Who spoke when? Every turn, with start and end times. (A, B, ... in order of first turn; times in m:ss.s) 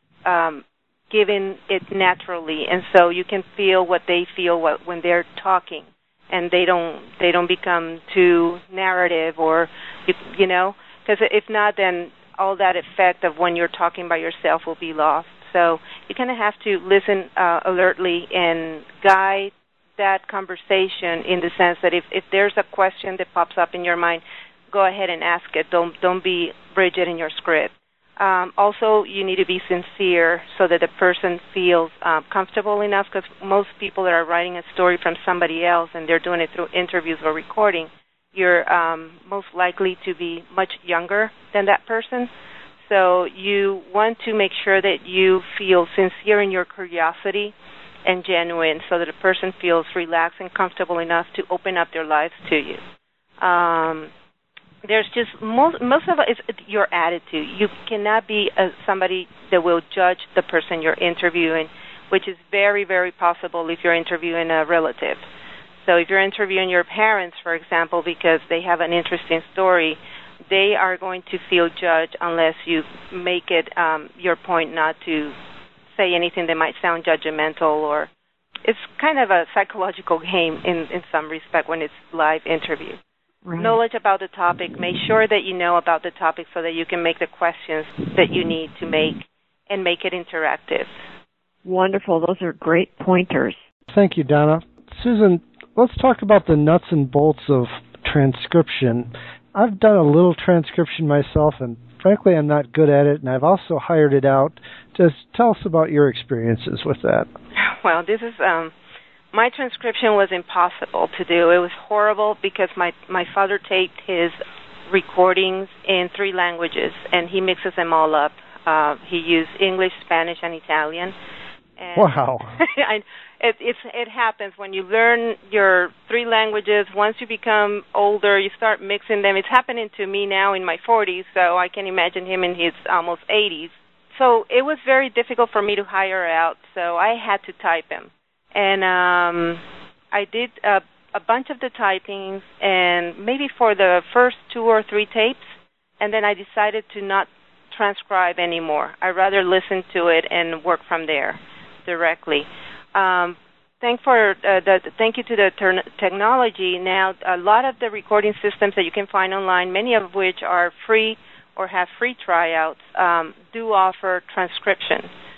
0:00.2-0:42.3 A
0:42.8-0:47.5 A
0:48.0-0:52.8 A
0:53.4-0:54.1 A
0:54.8-1:05.2 A
1:05.8-1:15.3 A
1:16.0-1:18.1 A
1:18.6-1:23.0 A
1:23.4-1:23.8 B
1:23.6-1:30.9 A
1:31.6-1:33.6 B
1:33.9-1:47.3 C
1:47.6-1:48.7 A
1:49.3-1:54.4 A
1:54.9-2:01.1 A
2:01.8-2:45.1 A
2:02.0-2:02.5 C